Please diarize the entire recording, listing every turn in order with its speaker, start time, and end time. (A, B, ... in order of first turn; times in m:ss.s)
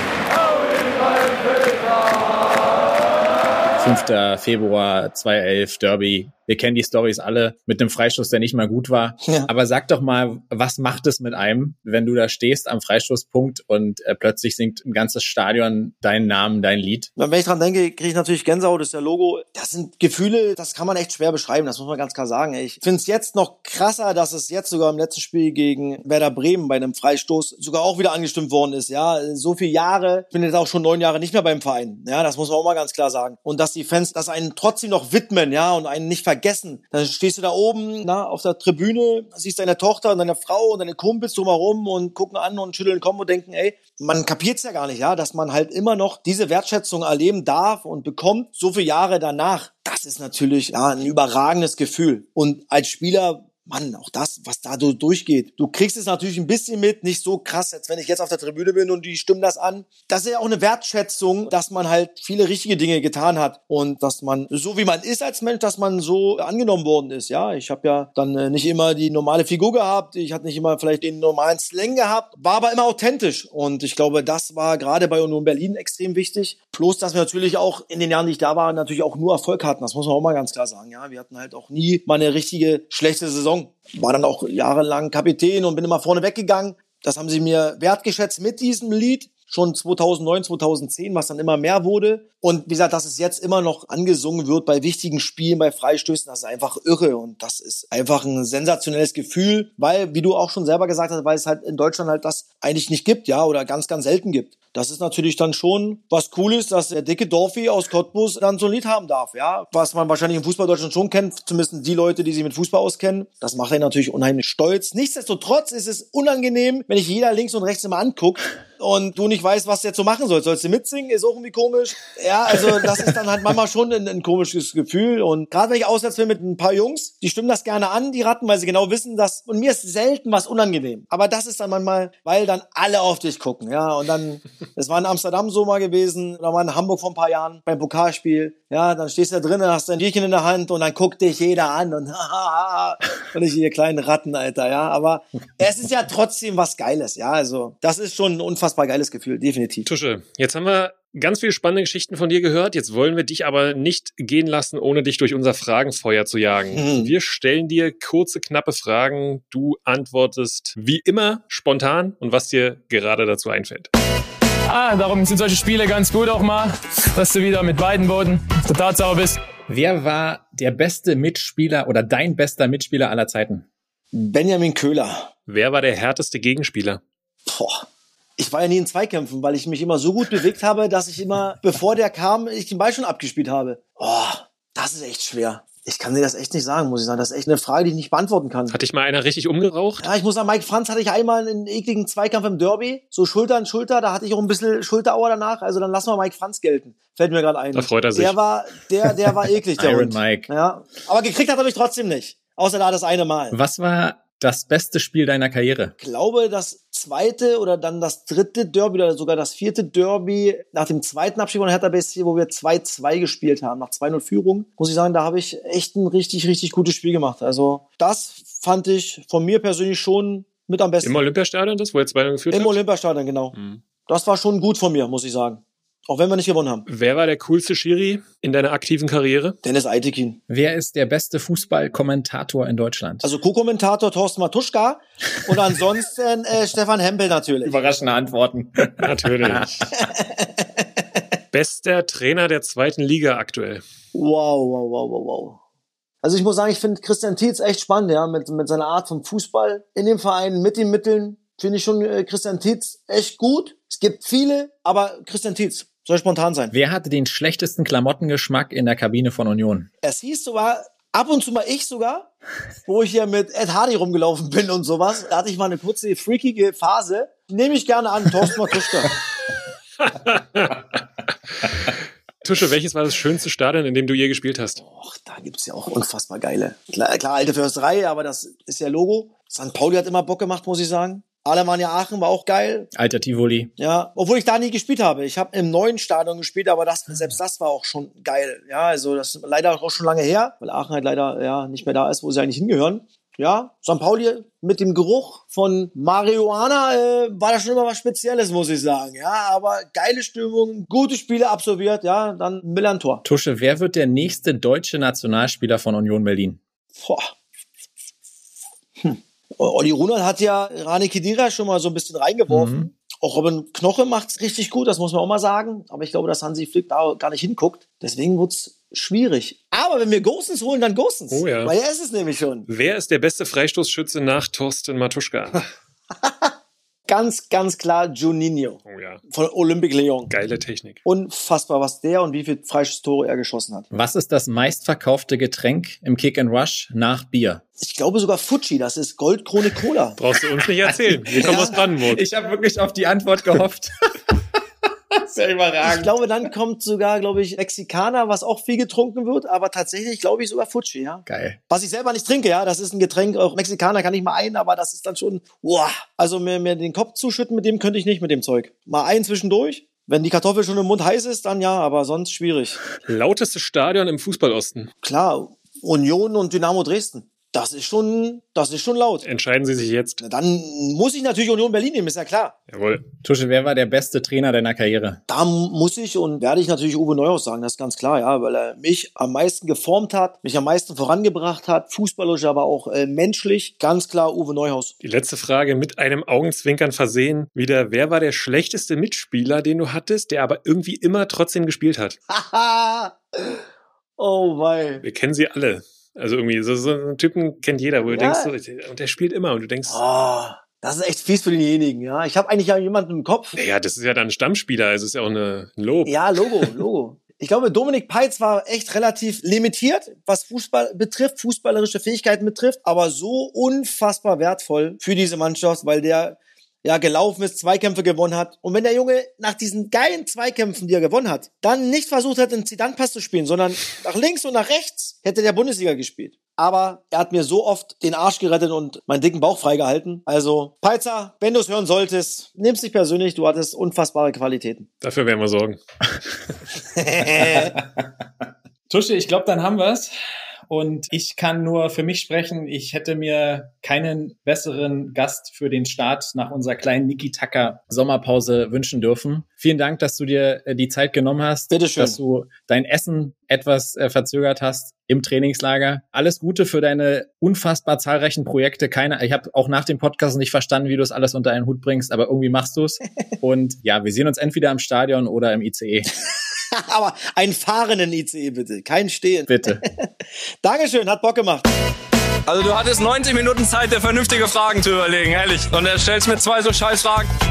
0:03.8-0:17.1 A
0:17.2-2:29.9 B
2:29.9-2:43.9 C
2:36.7-2:37.1 B
2:44.7-2:49.4 D
2:49.7-2:53.7 A
2:54.1-2:55.3 B
2:55.5-2:57.0 C
2:57.5-2:57.9 B
2:58.4-3:08.7 B
3:08.7-3:10.0 C
3:10.0-3:23.6 B
3:17.8-3:18.4 C
3:19.8-3:20.5 A
3:23.5-3:26.0 A
3:26.0-3:41.2 B
3:41.0-3:42.8 C
3:42.5-3:43.6 B
3:43.6-3:43.8 C
3:44.1-3:46.8 B
3:46.9-3:49.6 C
3:49.6-3:50.4 B
3:50.5-3:53.3 A
3:53.2-3:57.8 B
3:57.6-4:00.1 A
3:59.0-3:59.8 C
4:00.0-4:00.5 B
4:01.5-4:03.8 C
4:04.1-4:05.6 B
4:06.2-4:16.7 B
4:16.7-4:19.9 A
4:20.0-4:22.3 B
4:22.9-4:29.1 B
4:30.0-4:30.8 C
4:32.4-4:34.8 C
4:34.8-4:42.9 B
4:43.0-4:43.7 A
4:43.8-5:03.2 B
5:03.2-5:06.6 A
5:07.0-5:07.3 B
5:09.0-5:22.7 B
5:12.5-5:12.9 A
5:21.3-5:21.7 C
5:22.7-5:25.7 C
5:26.2-5:26.5 B
5:27.1-5:30.3 B
5:28.9-5:29.2 C
5:30.3-5:31.0 C
5:31.0-5:33.9 B
5:33.9-5:37.6 A
5:37.8-5:40.2 B
5:40.2-5:42.2 C
5:40.9-5:44.6 A
5:41.4-5:41.8 B
5:45.1-5:46.1 A
5:45.8-6:02.8 B
5:51.3-5:51.6 A
6:03.1-6:04.9 C
6:05.0-6:09.2 B
6:09.2-6:10.2 C
6:10.2-6:12.5 B
6:12.7-6:13.0 C
6:13.2-6:15.2 A
6:15.3-6:25.0 B
6:25.0-6:32.2 C
6:32.3-6:33.6 B
6:34.2-6:35.0 B
6:35.0-6:40.0 C
6:38.0-6:38.5 B
6:39.9-6:43.6 B
6:43.6-6:46.7 C
6:46.1-7:14.9 B
7:15.0-7:15.8 C
7:17.0-7:17.8 B
7:17.4-7:20.1 A
7:20.7-7:46.1 A
7:31.7-7:32.2 B
7:46.7-7:50.1 B
7:49.5-7:49.8 A
7:50.6-7:51.7 B
7:52.5-7:57.3 D